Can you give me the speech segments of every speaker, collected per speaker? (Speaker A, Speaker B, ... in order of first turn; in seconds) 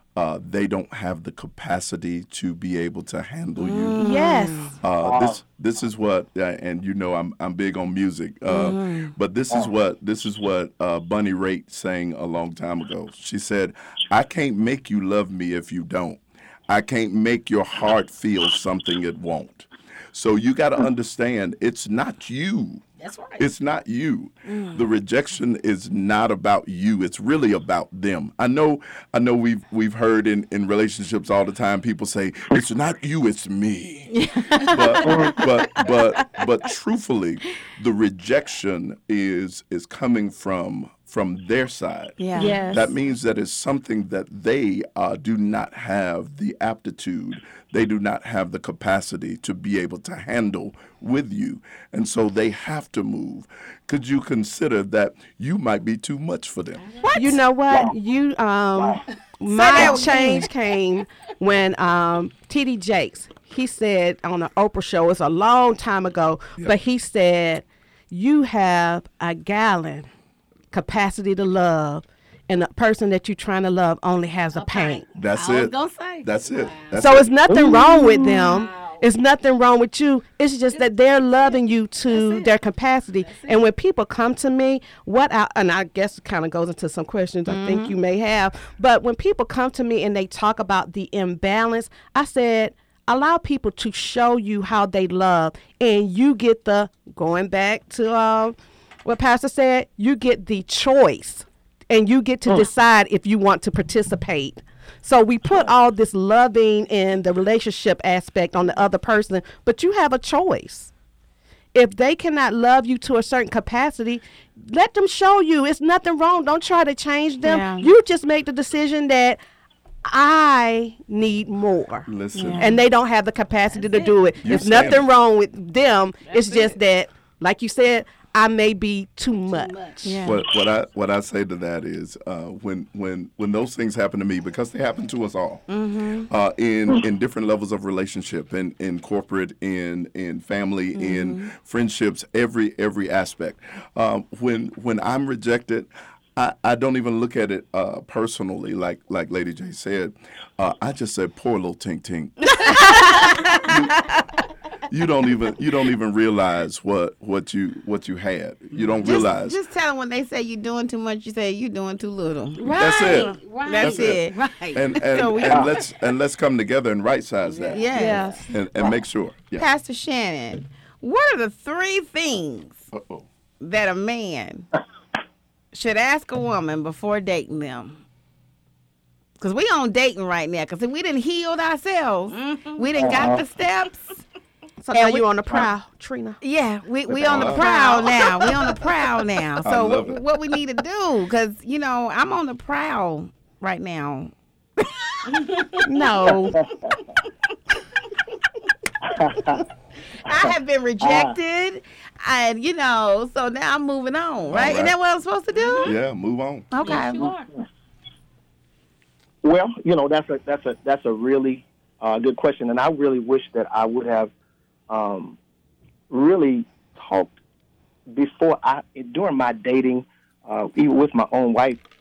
Speaker A: 0.1-4.0, 4.8-22.8, 23.4-56.8, 75.1-77.3, 122.1-122.7, 124.4-125.0, 130.2-135.6, 136.3-152.7, 153.5-154.1, 154.9-159.6, 162.8-164.2, 164.7-167.8, 168.5-169.7, 172.9-173.3, 187.1-187.6, 189.6-190.2, 204.5-204.9, 205.8-206.7
Speaker B: 3.6-4.7, 8.5-9.1, 24.5-24.8, 34.1-36.0, 42.2-42.7, 57.0-57.4, 59.5-60.5, 87.5-87.9, 117.4-117.9, 122.3-122.8, 130.0-130.4, 135.7-136.3, 140.9-141.5, 152.7-153.8, 159.0-165.7, 167.7-168.3, 169.6-172.8, 173.6-174.7, 175.7-178.0, 179.4-184.2, 184.9-185.6, 186.4-195.2, 195.8-196.6, 200.2-205.9, 206.7-207.2
Speaker C: 4.0-4.8, 42.4-42.9, 57.1-70.1, 70.7-75.0, 76.9-110.9, 111.7-119.4, 120.0-130.1, 162.6-162.9, 167.9-168.4, 184.8-186.4, 187.5-188.2, 195.8-196.5
Speaker D: 5.0-5.4, 35.0-35.4, 58.8-59.0, 77.5-78.4, 165.5-165.7, 183.0-183.4, 196.5-196.9, 199.0-199.6, 200.3-201.3, 209.4-214.3, 214.9-215.4, 216.1-217.3, 218.1-221.8
Speaker E: 23.0-23.4, 56.8-57.1, 74.5-77.0, 78.2-79.0, 82.1-82.5, 83.2-83.6, 123.7-124.2, 126.3-126.8, 129.5-130.2, 152.6-153.7, 158.8-159.1, 162.7-164.3, 167.4-168.4, 182.3-183.1, 195.3-195.8, 205.5-205.9, 206.8-207.5